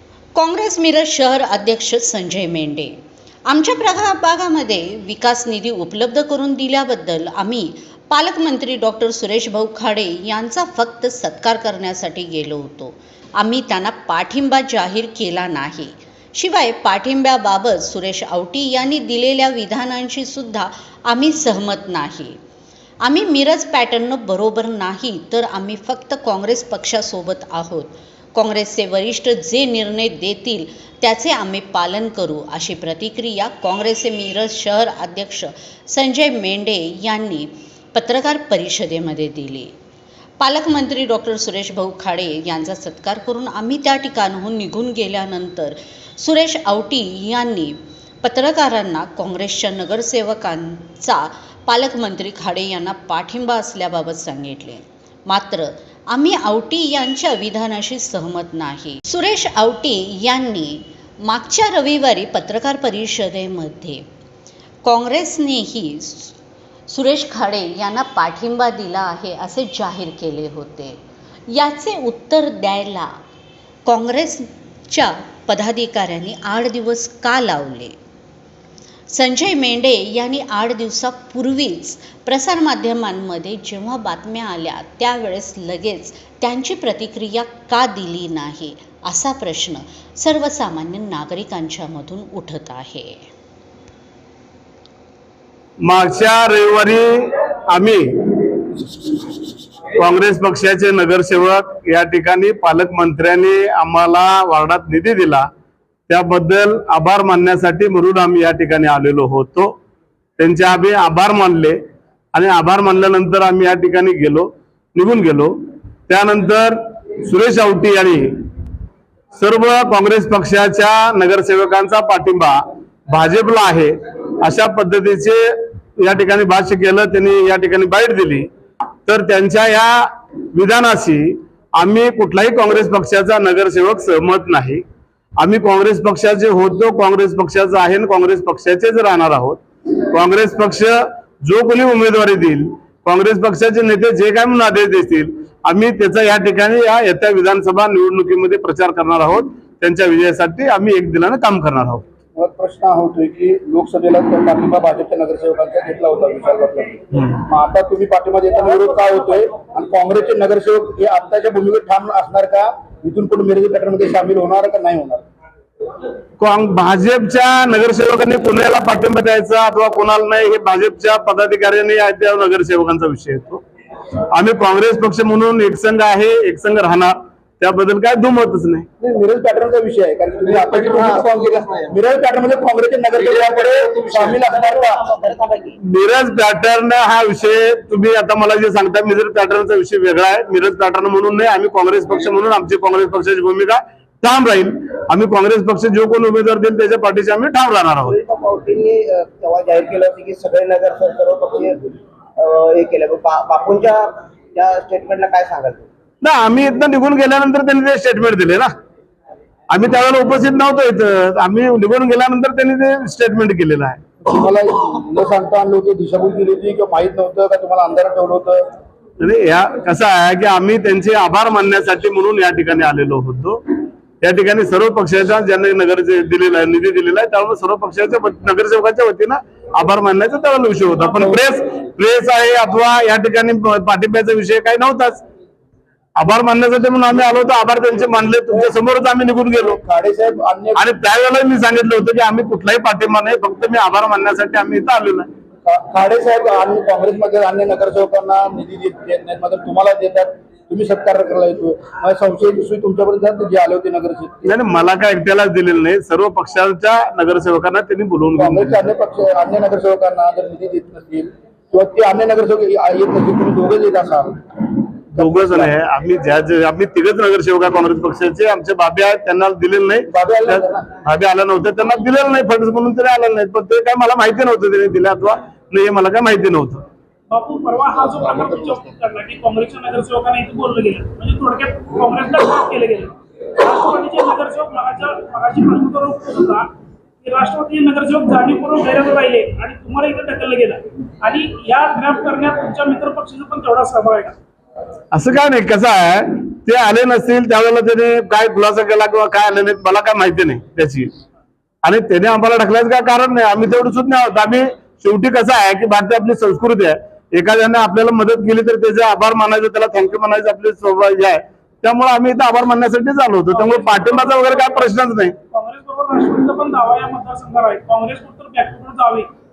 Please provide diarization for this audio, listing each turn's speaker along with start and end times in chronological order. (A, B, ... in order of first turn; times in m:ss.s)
0:00.4-0:03.0 A
0:03.5-0:22.4 A
0:23.0-0:39.7 A
0:40.4-1:04.0 A
1:04.8-1:06.4 A
1:06.9-1:11.0 A
1:11.5-1:13.1 A
1:13.9-1:18.0 A
1:19.1-1:33.2 A
1:35.8-1:39.1 B
1:40.0-1:45.5 B
1:46.1-1:49.7 B
1:50.4-1:51.8 B
1:52.3-1:55.5 B
1:56.1-1:58.3 B
1:59.4-2:05.4 B
2:06.0-2:08.5 B
2:09.1-2:14.8 B
2:15.4-2:32.0 B
2:32.4-2:45.2 C
2:46.4-2:53.6 B
2:54.3-2:58.9 B
2:59.0-3:05.1 C
3:01.0-3:01.2 D
3:04.6-3:05.8 D
3:05.8-3:18.2 B
3:18.0-3:25.9 D
3:26.2-3:28.7 B
3:29.7-3:34.0 B
3:34.2-3:38.6 C
3:39.2-3:43.6 B
3:44.2-3:55.2 B
3:56.2-3:59.8 B
3:59.6-4:00.8 C
4:00.8-4:05.3 B
4:05.7-4:14.5 C
4:14.5-4:18.8 B
4:18.4-4:24.4 C
4:25.2-4:36.8 B
4:25.2-4:25.7 C
4:30.1-4:30.8 C
4:37.3-4:46.7 E
4:47.2-4:54.4 E
4:55.1-5:01.1 B
5:01.8-5:15.4 B
5:13.5-5:14.9 E
5:15.5-5:19.3 E